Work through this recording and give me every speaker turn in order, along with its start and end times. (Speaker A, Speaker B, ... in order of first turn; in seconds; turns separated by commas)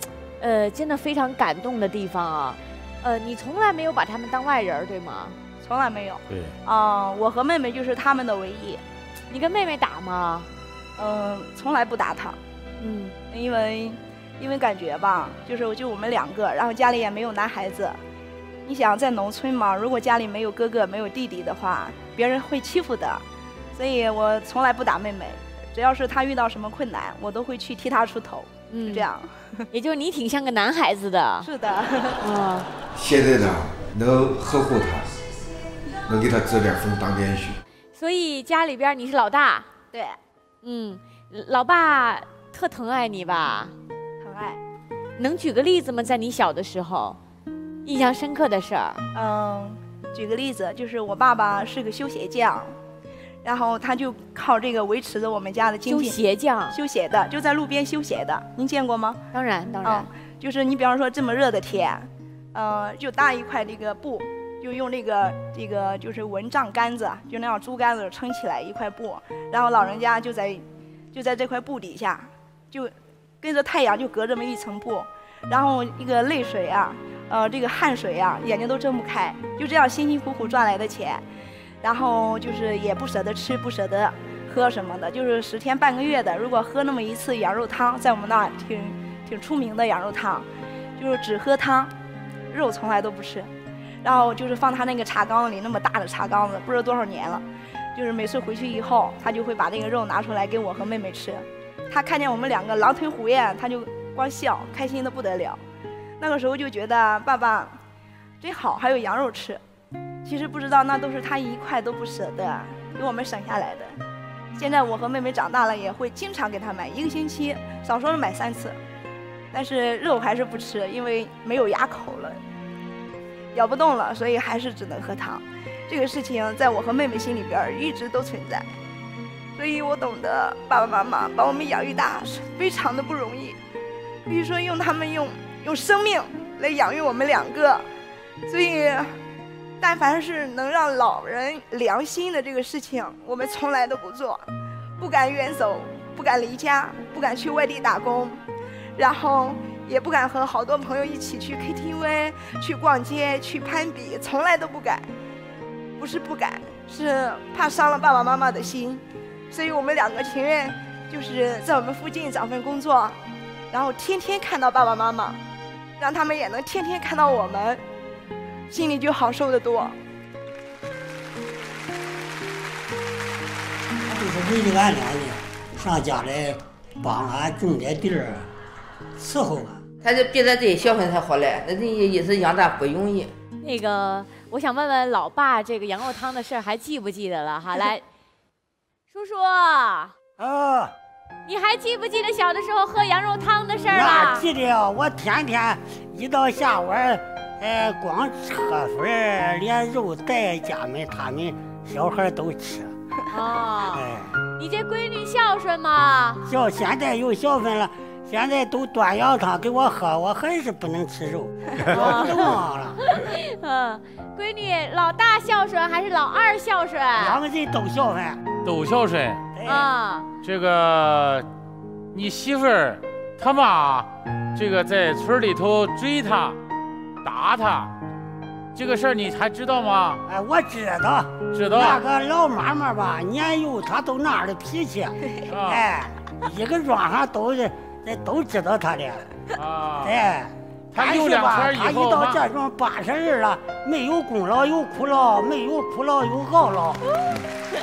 Speaker A: 0.4-5.4, Speaker B: 5.6-8.8, Speaker C: 6.3-6.5, Speaker A: 9.3-10.5, Speaker B: 11.0-12.4, Speaker A: 12.8-13.2, Speaker B: 13.3-18.0, Speaker B: 18.6-23.2, Speaker B: 23.7-29.6, Speaker A: 28.7-29.0, Speaker A: 29.7-31.5, Speaker B: 31.4-32.2, Speaker A: 32.2-32.7, Speaker D: 32.9-35.1, Speaker D: 36.0-37.6, Speaker A: 37.9-39.7, Speaker B: 39.9-40.2, Speaker A: 40.6-43.7, Speaker B: 44.2-44.6, Speaker A: 45.2-47.2, Speaker A: 47.8-49.0, Speaker B: 49.1-52.7, Speaker B: 53.4-56.2, Speaker A: 55.9-56.8, Speaker B: 56.7-59.2, Speaker A: 59.3-60.1, Speaker B: 59.8-81.2, Speaker B: 81.8-90.5, Speaker B: 91.0-91.9, Speaker B: 92.5-93.5, Speaker B: 94.0-105.6, Speaker B: 106.2-107.8, Speaker B: 108.4-109.6, Speaker B: 110.2-114.0, Speaker B: 114.6-118.8, Speaker B: 119.5-122.4, Speaker B: 123.5-128.7, Speaker B: 129.6-133.6, Speaker B: 134.3-137.9, Speaker B: 138.5-139.1, Speaker B: 139.8-144.4, Speaker B: 145.0-148.4, Speaker B: 148.9-155.1, Speaker B: 156.0-163.2, Speaker B: 163.7-165.4, Speaker B: 166.0-167.8, Speaker B: 168.7-169.9, Speaker E: 174.1-178.5, Speaker E: 179.2-179.8, Speaker F: 180.0-183.3, Speaker A: 183.6-188.0, Speaker A: 189.1-190.1, Speaker E: 190.4-190.9, Speaker A: 191.4-194.5, Speaker E: 193.9-202.9, Speaker A: 203.3-204.0, Speaker E: 203.9-204.3, Speaker A: 204.6-206.4, Speaker E: 206.4-213.0, Speaker A: 211.9-212.5, Speaker A: 213.1-217.4, Speaker E: 217.2-218.4, Speaker C: 218.6-219.4, Speaker E: 219.6-219.9, Speaker A: 219.6-220.3, Speaker C: 220.4-221.5, Speaker C: 222.1-226.6, Speaker C: 227.2-227.9, Speaker C: 228.7-230.2, Speaker E: 230.2-239.2, Speaker C: 231.5-232.0, Speaker C: 235.5-235.9, Speaker C: 239.6-240.2, Speaker E: 240.0-247.2, Speaker C: 240.9-242.4